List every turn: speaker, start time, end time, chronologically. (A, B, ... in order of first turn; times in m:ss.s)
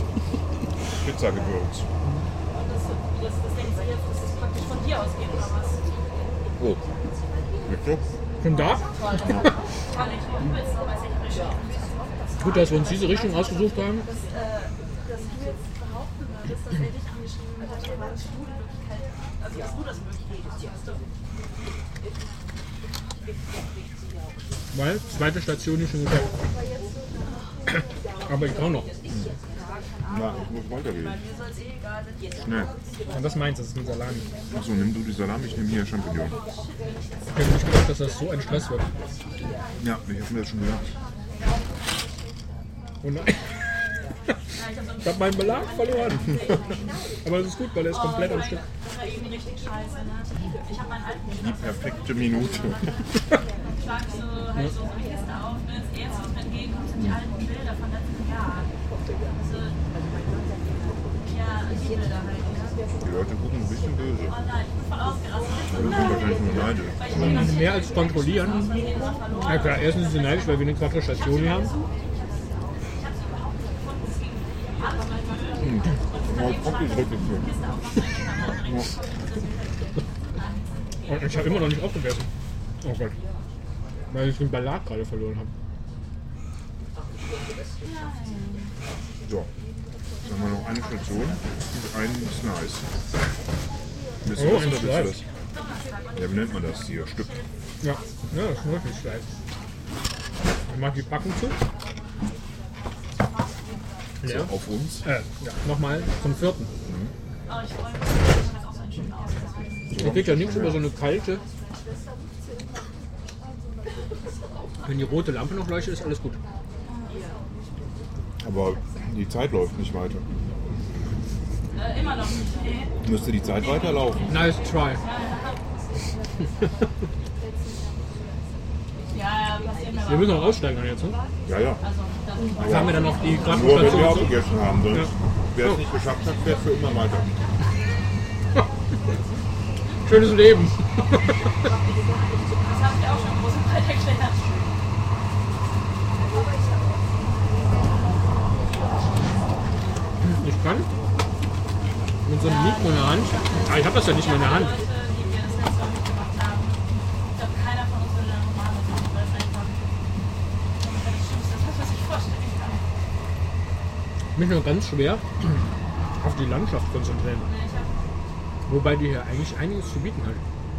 0:00.9-0:01.9 A
0:02.5-0:05.9 B
0:06.6-0:06.8 A
0:07.7-0:08.1 A
0:08.4-0:09.6 C
0:08.9-0:15.3 B
0:09.2-0:09.5 A
0:12.4-0:14.1 C
0:16.4-0:21.0 B
0:24.7-0:26.4 C
0:27.7-0:28.9 C
0:30.1-0:31.2 A
0:32.4-0:32.7 A
0:33.1-0:34.3 C
0:34.5-0:36.4 A
0:36.3-0:37.3 B
0:37.3-0:38.9 C
0:39.8-0:40.9 A
0:43.0-0:43.5 C
0:44.5-0:46.9 B
0:45.0-0:46.7 C
0:47.2-0:48.7 C
0:47.9-0:58.7 B
0:51.3-0:52.9 A
0:59.3-0:59.8 B
1:01.3-1:02.9 B
1:03.0-1:04.4 A
1:04.3-1:21.3 B
1:05.7-1:07.5 A
1:07.1-1:08.8 C
1:09.4-1:11.7 C
1:15.6-1:17.5 A
1:21.1-1:22.3 C
1:22.8-1:23.2 C
1:24.1-1:25.5 C
1:27.8-1:28.8 B
1:29.2-1:29.5 A
1:30.2-1:32.9 A
1:34.2-1:35.2 A
1:34.4-1:35.2 C
1:35.5-1:37.6 B
1:36.1-1:37.3 A
1:37.8-1:39.3 C
1:40.7-1:41.6 C
1:44.2-1:46.7 C
1:44.2-1:45.1 A
1:46.8-1:47.2 A
1:47.5-1:50.1 B
1:49.9-1:50.8 A
1:49.9-1:51.4 C
1:54.8-1:56.4 C
1:56.9-1:57.4 B
1:58.4-2:00.3 A
2:01.7-2:03.0 B
2:03.0-2:04.5 A
2:03.6-2:05.8 B
2:04.3-2:05.0 C
2:09.1-2:10.6 B
2:10.0-2:11.2 C
2:11.5-2:11.8 A
2:11.8-2:14.4 B
2:12.6-2:14.4 C
2:12.6-2:17.4 A
2:16.0-2:17.5 B
2:20.0-2:21.4 C
2:22.6-2:24.6 B
2:30.2-2:30.9 C
2:32.2-2:34.8 C
2:32.4-2:39.9 B
2:40.8-2:42.8 B
2:44.4-2:45.7 C
2:46.2-2:47.5 C
2:47.4-2:48.0 B
2:48.7-2:50.4 C